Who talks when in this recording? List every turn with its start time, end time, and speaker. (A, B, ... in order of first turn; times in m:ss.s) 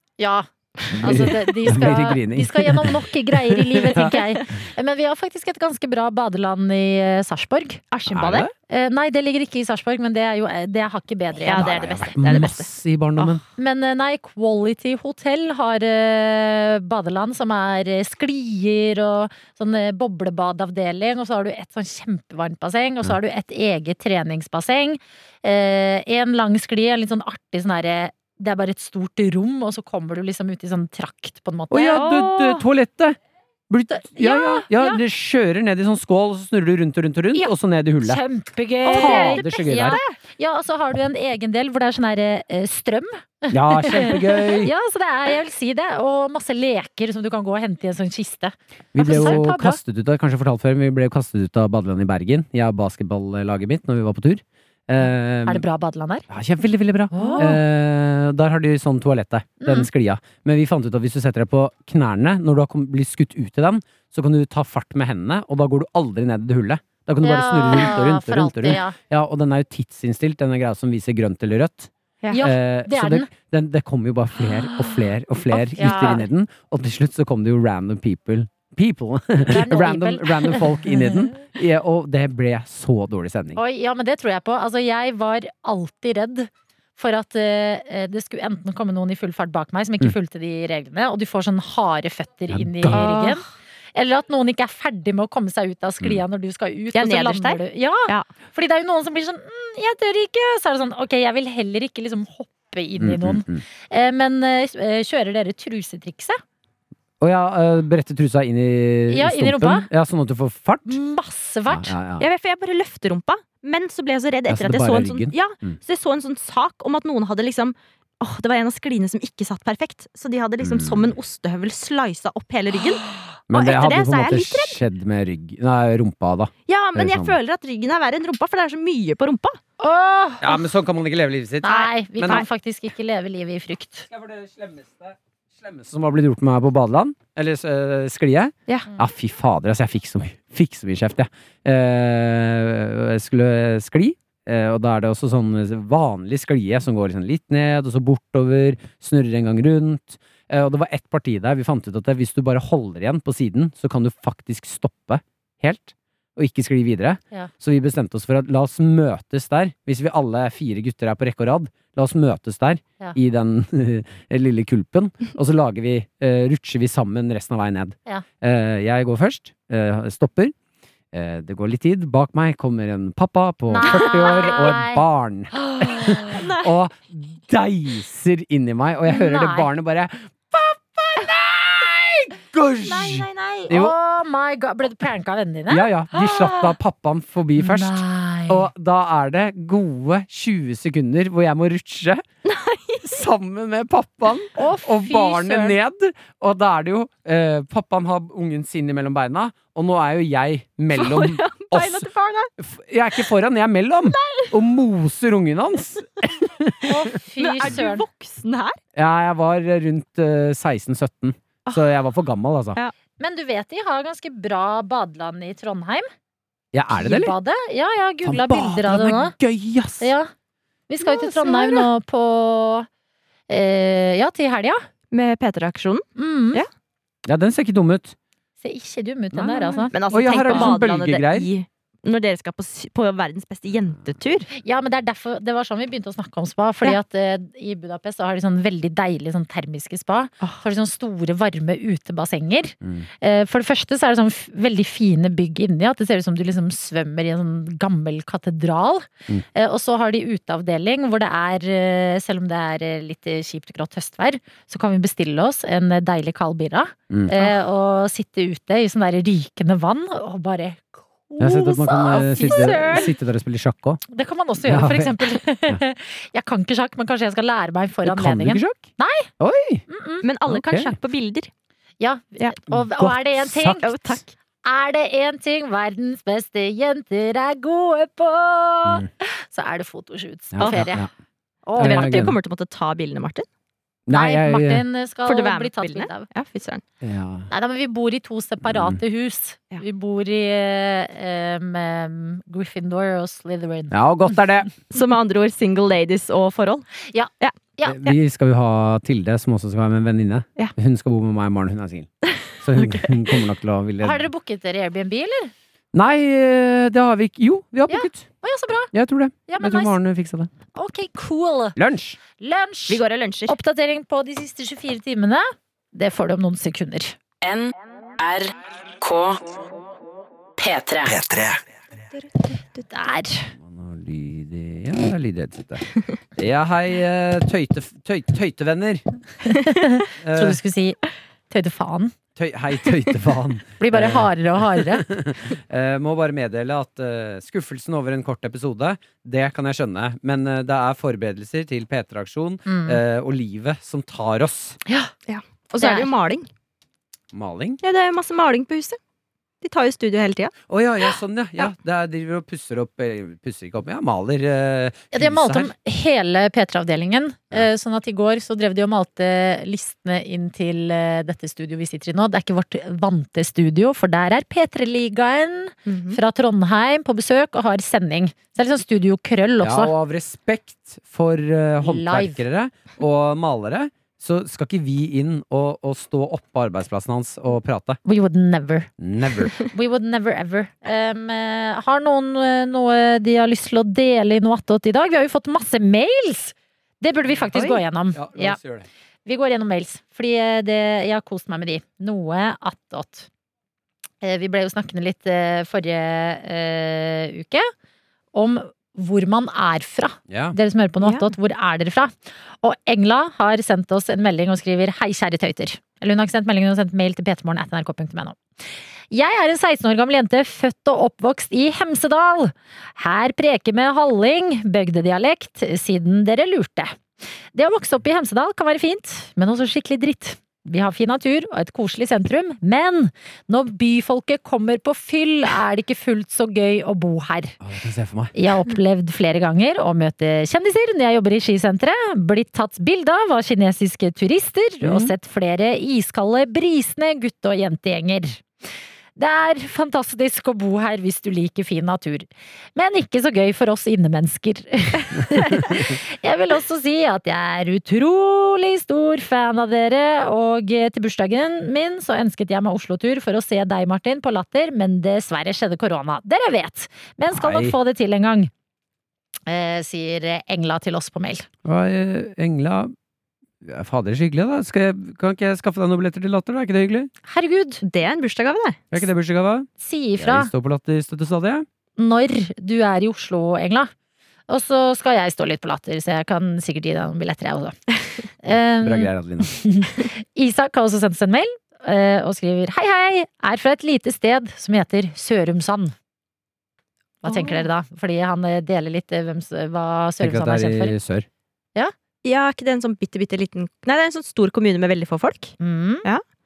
0:00.2-0:07.8 A
0:00.9-0:04.2 B
0:01.0-0:01.5 C
0:07.9-0:08.5 C
0:08.1-0:08.5 B
0:08.7-0:12.1 A
0:11.4-0:13.4 C
0:11.4-0:13.4 B
0:13.6-0:32.3 A
0:31.7-0:33.2 B
0:32.0-0:32.6 C
0:33.7-0:38.2 B
0:33.9-0:35.0 A
0:37.3-0:49.8 A
0:38.8-0:40.2 C
0:38.9-0:40.0 B
0:43.5-0:44.7 B
0:48.9-0:55.6 B
0:49.1-0:49.4 C
0:55.4-0:56.2 A
0:56.3-1:23.6 B
0:57.1-0:57.6 A
0:59.6-0:59.9 A
1:07.2-1:08.9 A
1:12.3-1:13.3 A
1:15.5-1:16.2 A
1:19.4-1:21.0 A
1:23.5-1:46.4 A
1:32.5-1:33.0 B
1:32.9-1:33.4 C
1:36.9-1:38.3 C
1:43.0-1:43.6 B
1:47.2-1:51.0 B
1:49.1-1:49.9 A
1:50.9-1:51.9 A
1:51.7-1:52.3 B
1:52.2-2:04.8 C
1:54.5-1:55.8 B
2:00.6-2:01.1 B
2:03.5-2:07.4 B
2:06.7-2:09.6 C
2:09.8-2:10.6 A
2:10.4-2:12.5 B
2:11.6-2:14.1 A
2:14.1-2:50.5 B
2:51.1-3:03.9 B
2:53.7-2:55.0 A
2:53.8-2:54.5 C
2:55.5-2:56.4 A
2:56.3-2:56.7 C
2:59.1-2:59.7 A
3:02.8-3:03.7 C
3:03.7-3:06.7 A
3:05.7-3:12.2 B
3:07.6-3:08.7 A
3:12.4-3:13.2 C
3:13.0-3:22.1 B
3:14.6-3:15.8 A
3:20.9-3:22.5 C
3:22.6-3:27.1 B
3:24.1-3:24.5 C
3:26.8-3:28.0 A
3:27.4-3:28.8 C
3:28.9-3:32.8 B
3:33.2-3:36.1 A
3:36.7-3:37.3 B
3:36.9-3:39.3 A
3:38.2-3:40.1 B
3:40.0-3:40.3 A
3:40.9-3:42.9 A
3:41.0-3:41.9 C
3:43.5-3:44.8 A
3:45.1-3:46.7 C
3:46.2-3:46.6 A
3:47.2-3:48.1 B
3:48.6-3:50.8 A
3:49.3-3:51.5 B
3:49.8-3:54.5 C
3:54.5-4:23.1 A
4:17.1-4:17.5 B
4:21.4-4:24.0 B
4:22.4-4:23.0 C
4:24.1-4:29.3 A
4:24.6-4:25.8 B
4:28.0-4:28.9 B
4:29.4-4:29.8 B
4:29.9-4:30.2 A
4:30.2-4:31.5 C
4:30.5-4:30.9 B
4:32.0-4:33.9 A
4:32.7-4:34.2 B
4:33.8-4:34.2 C
4:34.6-4:41.1 A
4:40.5-4:41.1 B
4:40.6-4:40.9 C
4:41.6-4:42.3 A
4:41.8-4:43.5 C
4:41.8-4:42.4 B
4:44.1-4:44.8 B
4:44.1-4:46.3 A
4:45.2-4:46.8 C
4:47.0-4:47.5 B
4:47.5-4:53.9 A
4:48.6-4:49.0 B
4:53.9-4:54.7 B
4:54.9-4:56.9 C
4:57.1-4:58.0 A
4:57.4-4:58.1 C
4:57.8-5:04.2 B
5:02.3-5:03.1 C
5:04.0-5:05.5 A
5:05.9-5:08.3 B
5:07.9-5:08.9 A
5:08.9-5:10.5 B
5:09.5-5:10.0 A
5:10.7-5:11.8 A
5:11.8-5:12.2 B
5:12.4-5:17.2 A
5:12.9-5:13.6 C
5:18.2-5:19.4 D
5:20.6-5:21.4 D
5:22.2-5:22.6 C
5:22.9-5:23.5 A
5:23.6-5:29.0 B
5:29.4-5:32.1 A
5:30.2-5:30.6 B
5:32.4-5:44.8 B
5:33.8-5:35.0 A
5:42.7-5:43.0 A
5:44.8-5:45.1 A
5:45.3-5:46.5 C
5:45.8-5:46.1 A
5:47.3-5:47.8 B
5:47.8-5:49.0 C
5:49.6-5:50.6 C
5:50.7-5:55.7 B
5:55.1-6:09.9 A
6:05.9-6:06.2 C
6:09.6-6:18.0 B
6:11.8-6:12.4 A
6:18.0-6:18.9 A
6:19.0-6:19.5 B
6:19.5-6:28.6 A
6:27.5-6:28.9 B
6:29.2-6:33.3 A
6:34.2-6:37.7 A
6:38.3-6:48.4 A
6:40.3-6:40.6 B
6:41.0-6:41.3 C
6:49.1-6:57.0 A
6:57.5-7:07.6 A
7:07.6-7:08.3 B
7:08.3-7:18.4 A
7:14.8-7:15.1 B
7:19.2-7:38.5 A
7:37.3-7:37.8 B
7:39.5-7:41.5 A
7:41.6-7:42.9 B
7:43.6-7:47.1 B
7:47.3-7:47.8 A
7:47.8-7:49.0 C
7:48.9-7:51.6 B
7:49.8-7:50.5 A
7:52.0-7:53.9 A
7:54.5-7:57.8 A
7:58.4-8:05.9 A
7:58.8-7:59.6 B
8:07.2-8:10.9 A
8:07.2-8:07.7 C
8:10.2-8:11.3 B
8:12.2-8:16.2 C
8:15.6-8:16.0 A